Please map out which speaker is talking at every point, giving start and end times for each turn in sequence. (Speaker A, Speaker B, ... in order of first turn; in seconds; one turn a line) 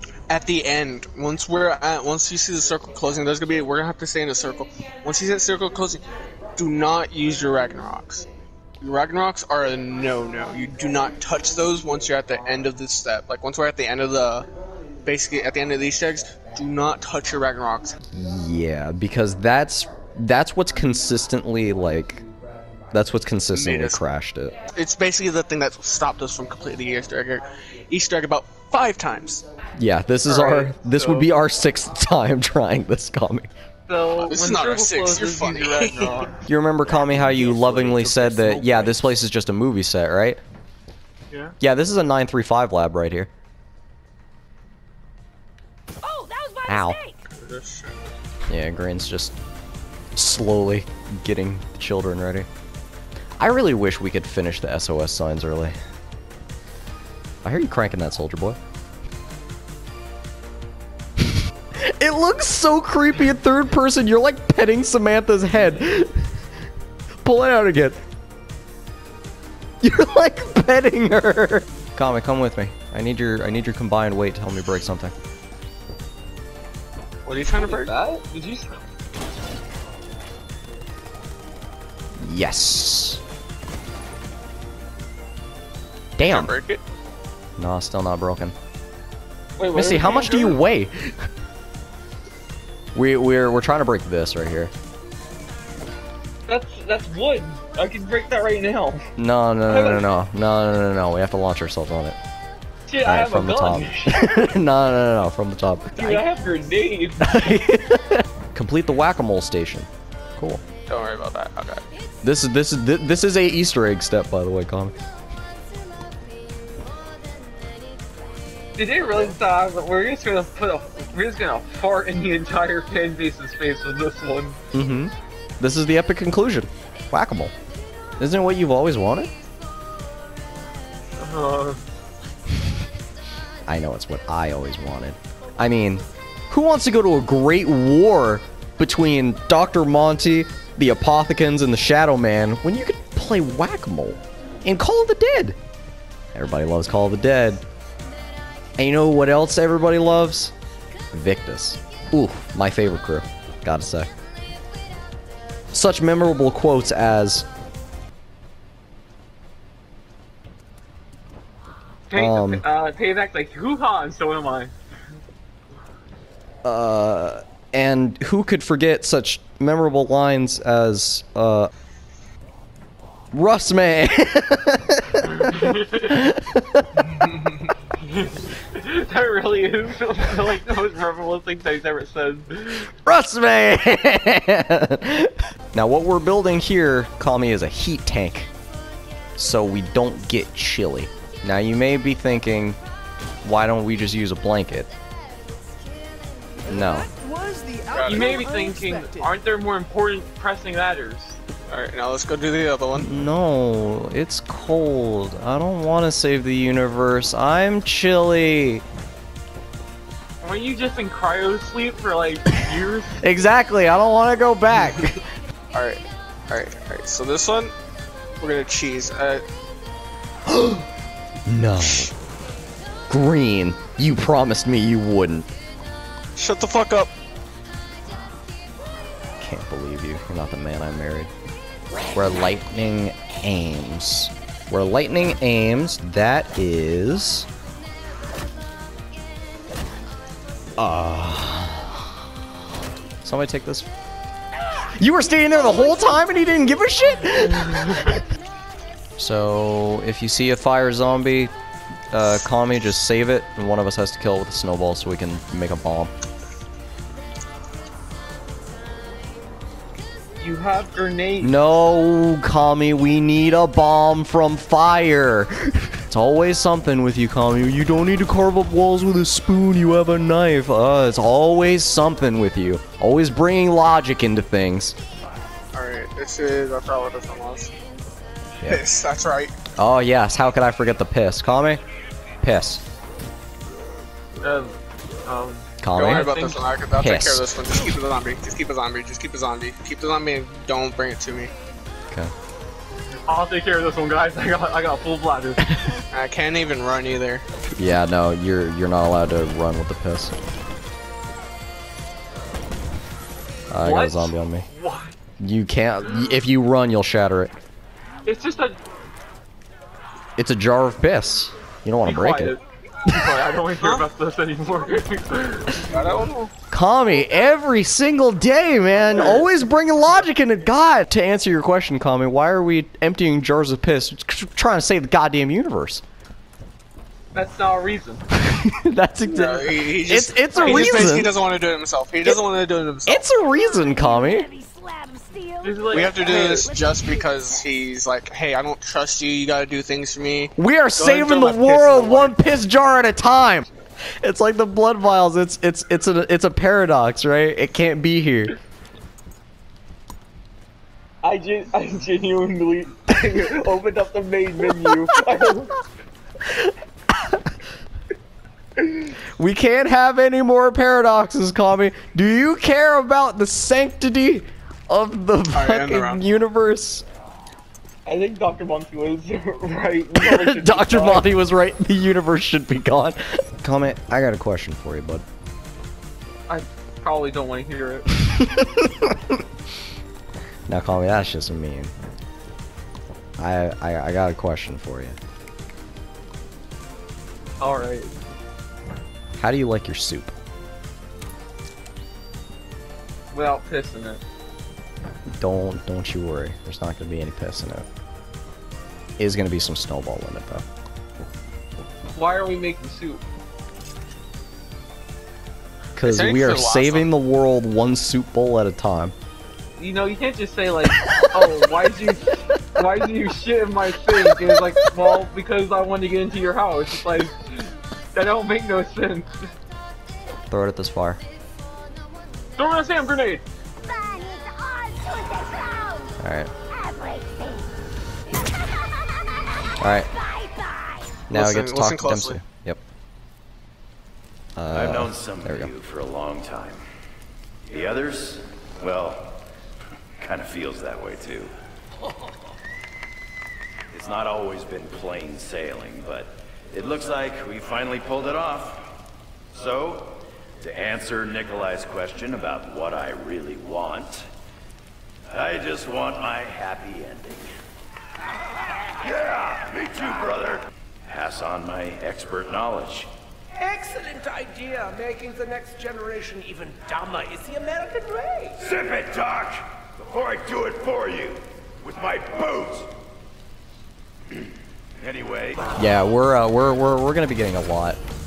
Speaker A: 0.3-8.3
Speaker A: 8.8-14.5
Speaker A: 15.0-18.0
Speaker B: 18.1-22.2
Speaker B: 22.9-24.6
Speaker A: 23.5-24.0
Speaker A: 24.8-29.4
Speaker B: 29.8-33.5
Speaker C: 30.2-31.3
Speaker C: 33.9-36.5
Speaker A: 34.2-36.3
Speaker B: 36.5-40.4
Speaker D: 37.3-39.1
Speaker C: 41.3-41.6
Speaker B: 41.6-43.3
Speaker D: 46.0-47.2
Speaker B: 46.7-47.0
Speaker A: 47.3-48.1
Speaker B: 48.5-49.4
Speaker B: 50.1-52.5
Speaker B: 53.4-55.8
Speaker B: 57.4-58.6
Speaker B: 61.2-66.4
Speaker B: 67.2-68.0
Speaker B: 69.8-75.2
Speaker A: 77.2-77.9
Speaker C: 77.5-78.8
Speaker B: 82.2-83.2
Speaker B: 86.2-86.5
Speaker A: 86.2-86.8
Speaker B: 87.6-88.5
Speaker C: 89.6-90.6
Speaker B: 89.7-91.3
Speaker B: 92.9-94.7
Speaker C: 96.5-99.1
Speaker B: 99.2-102.2
Speaker C: 99.7-100.0
Speaker C: 102.9-104.5
Speaker B: 103.0-106.3
Speaker C: 106.0-107.4
Speaker B: 107.2-110.6
Speaker A: 110.9-111.9
Speaker B: 112.2-115.0
Speaker C: 118.8-124.6
Speaker B: 124.7-127.5
Speaker B: 128.2-129.3
Speaker C: 131.2-131.8
Speaker B: 133.7-145.6
Speaker B: 146.3-147.6
Speaker B: 148.8-150.5
Speaker B: 151.1-154.1
Speaker B: 155.7-157.5
Speaker C: 162.1-164.7
Speaker B: 162.1-162.6
Speaker B: 166.6-171.7
Speaker B: 173.3-177.0
Speaker C: 175.2-176.2
Speaker A: 177.1-177.7
Speaker C: 178.0-182.9
Speaker B: 183.0-188.5
Speaker B: 189.4-192.8
Speaker B: 193.4-194.9
Speaker D: 196.6-199.3
Speaker B: 196.7-197.1
Speaker A: 197.9-198.4
Speaker C: 198.1-201.4
Speaker A: 201.7-203.1
Speaker B: 202.9-208.8
Speaker C: 210.4-213.2
Speaker B: 213.2-215.2
Speaker A: 215.7-217.7
Speaker A: 218.4-219.4
Speaker B: 220.5-220.8
Speaker B: 221.5-222.1
Speaker B: 223.1-225.5
Speaker A: 226.4-227.1
Speaker B: 229.4-231.3
Speaker B: 232.1-237.5
Speaker B: 240.8-242.1
Speaker B: 243.2-243.9
Speaker B: 244.9-248.2
Speaker B: 249.2-251.5
Speaker B: 252.1-256.1
Speaker C: 260.4-261.6
Speaker B: 261.4-275.0
Speaker A: 275.7-277.7
Speaker A: 278.6-279.5
Speaker B: 279.7-281.8
Speaker B: 282.4-282.8
Speaker C: 284.4-286.6
Speaker B: 285.8-286.4
Speaker A: 285.9-291.5
Speaker B: 287.0-287.5
Speaker C: 293.3-295.9
Speaker A: 296.1-297.4
Speaker B: 297.8-300.4
Speaker B: 303.7-304.7
Speaker C: 303.8-305.1
Speaker B: 305.4-307.5
Speaker C: 308.2-308.8
Speaker B: 310.4-312.6
Speaker C: 312.0-316.3
Speaker A: 315.8-316.5
Speaker B: 316.7-326.0
Speaker C: 327.3-328.2
Speaker B: 328.3-331.3
Speaker A: 329.3-333.3
Speaker B: 333.1-334.5
Speaker D: 333.4-337.6
Speaker C: 335.6-336.7
Speaker A: 335.9-342.6
Speaker B: 340.6-343.7
Speaker B: 344.2-348.6
Speaker C: 351.2-355.8
Speaker B: 356.4-357.6
Speaker B: 359.2-367.1
Speaker A: 365.5-366.2
Speaker C: 368.1-371.3
Speaker B: 370.1-375.2
Speaker C: 376.5-378.1
Speaker B: 378.2-379.4
Speaker B: 380.7-381.9
Speaker B: 383.4-385.2
Speaker C: 387.6-388.3
Speaker B: 389.4-390.4
Speaker C: 393.3-394.2
Speaker B: 395.3-397.9
Speaker B: 399.2-400.6
Speaker C: 402.1-403.2
Speaker B: 406.0-409.1
Speaker A: 406.0-407.1
Speaker C: 409.8-419.5
Speaker B: 420.5-421.2
Speaker C: 422.6-423.5
Speaker D: 423.8-427.7
Speaker B: 426.2-426.5
Speaker B: 429.8-430.1
Speaker D: 430.1-431.2
Speaker B: 431.3-432.8
Speaker A: 431.3-432.4
Speaker B: 434.6-435.7
Speaker E: 434.7-436.8
Speaker E: 437.7-439.4
Speaker E: 440.2-441.5
Speaker E: 443.9-448.9
Speaker E: 449.5-454.3
Speaker E: 455.3-457.5
Speaker E: 459.0-463.1
Speaker D: 463.6-468.7
Speaker E: 468.6-472.9
Speaker E: 475.0-475.9
Speaker B: 475.8-478.0